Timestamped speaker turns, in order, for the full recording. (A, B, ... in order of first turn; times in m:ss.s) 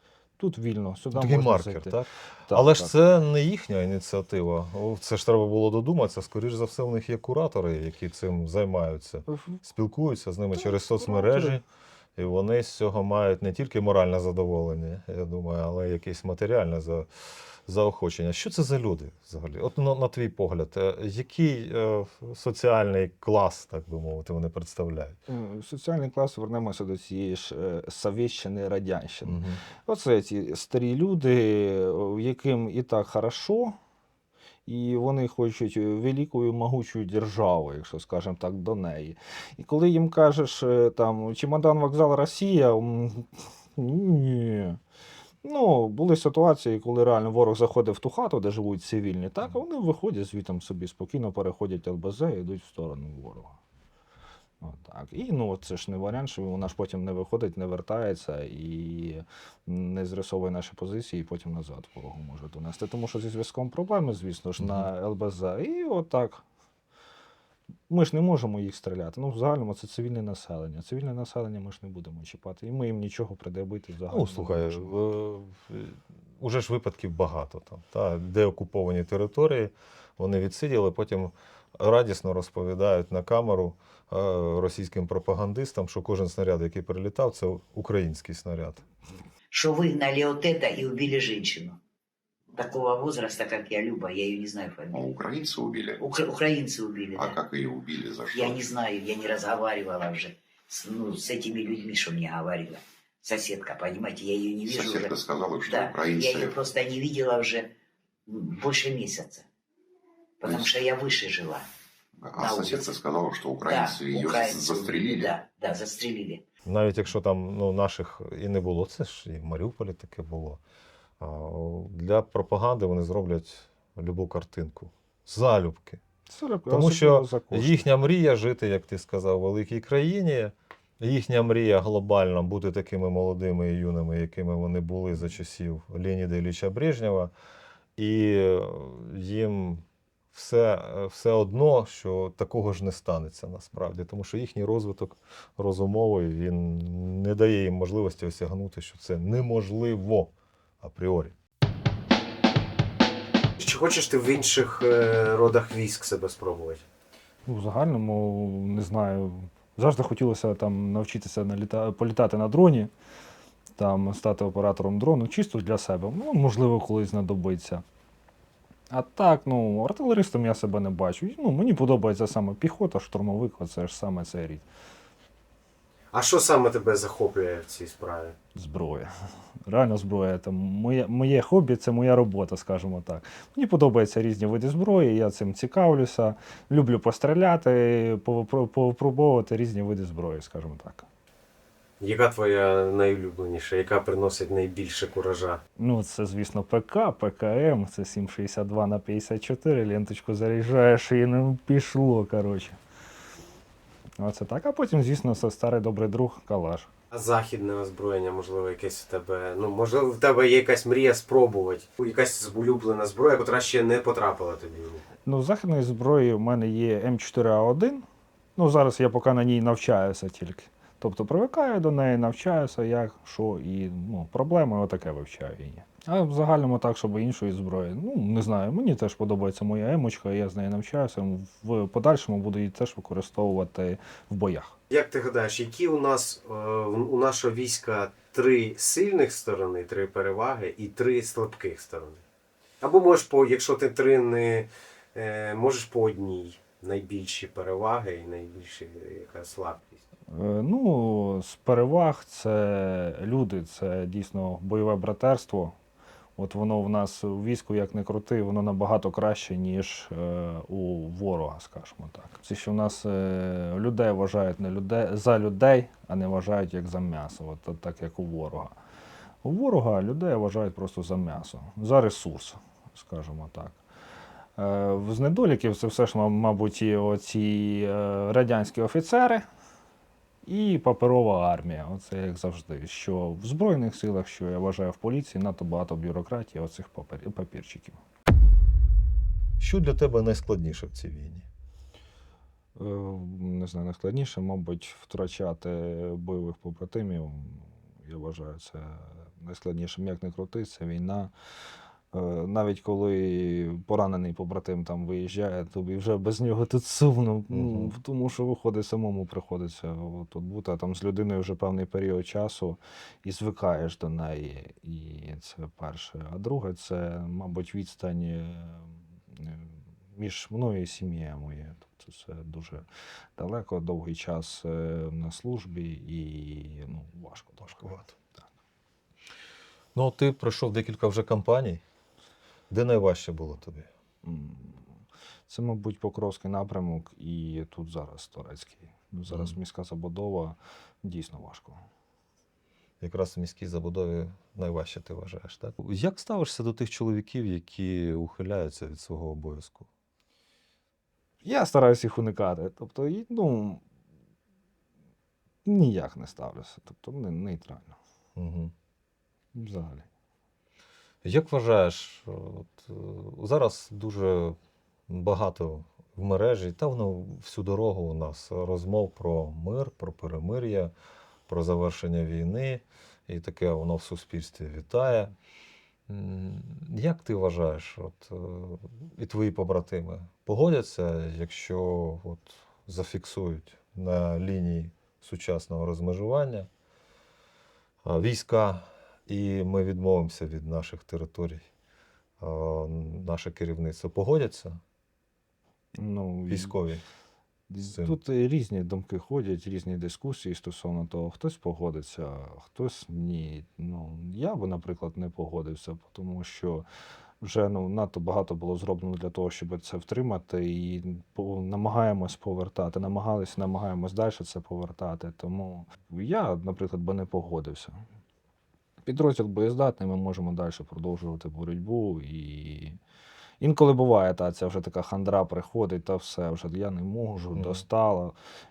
0:00.4-0:02.0 A
0:01.1-0:11.6 B
0:02.5-0:02.9 A
0:09.3-0:09.6 A
0:10.6-0:11.6 A
0:12.2-0:17.1 B
0:17.6-0:25.2 B
0:25.3-0:33.7 A
0:29.2-0:29.6 B
0:34.6-0:44.8 A
0:45.4-0:53.6 A
0:54.6-1:06.4 A
1:04.6-1:04.8 B
1:07.9-1:14.9 A
1:14.1-1:28.8 B
1:29.5-1:31.8 C
1:32.5-1:35.0 C
1:34.9-1:36.0 D
1:36.0-1:37.4 C
1:37.2-1:38.6 D
1:38.3-1:45.1 C
1:44.7-1:46.6 D
1:45.6-1:47.7 C
1:48.3-1:49.4 C
1:50.4-1:51.6 C
1:50.4-1:50.7 D
1:52.2-1:55.3 D
1:52.4-1:52.9 C
1:53.6-1:56.4 C
1:56.6-2:00.6 B
2:01.2-2:06.0 B
2:06.3-2:07.9 A
2:06.7-2:17.3 B
2:18.0-2:31.3 B
2:33.6-2:36.8 E
2:37.4-2:42.9 A
2:43.8-2:47.8 A
2:48.9-2:54.6 A
2:56.1-2:58.4 E
2:58.5-2:59.1 A
2:59.6-3:11.1 A
3:12.0-3:15.6 E
3:15.8-3:22.8 A
3:24.2-3:26.9 A
3:27.1-3:35.0 E
3:35.2-3:38.0 A
3:38.6-3:54.7 A
3:54.9-4:02.2 E
4:02.8-4:10.0 E
4:10.3-4:15.7 A
4:16.4-4:28.8 A
4:29.4-4:33.8 A
4:34.6-4:39.5 A
4:40.4-4:48.0 A
4:49.6-4:51.4 B
4:52.8-5:01.3 A
5:02.1-5:22.8 A
5:07.5-5:07.9 B
5:23.4-5:28.2 A
5:27.8-5:28.0 B
5:29.9-5:31.8 B
5:32.7-5:33.9 B
5:34.2-5:34.9 A
5:35.5-5:41.8 A
5:39.3-5:39.5 B
5:43.0-5:49.9 B
5:51.4-5:53.8 A
5:55.6-5:58.0 A
5:58.4-5:58.7 B
5:59.5-6:00.0 A
6:01.2-6:04.6 B
6:05.1-6:10.9 B
6:11.5-6:15.3 B
6:16.1-6:26.7 B
6:28.0-6:31.6 B
6:32.4-6:34.8 B
6:36.0-6:36.8 A
6:36.5-6:37.0 B
6:37.7-6:46.8 A
6:37.8-6:38.2 B
6:47.4-6:58.0 A
6:59.0-7:03.0 A
7:03.6-7:08.3 A
7:07.5-7:07.8 B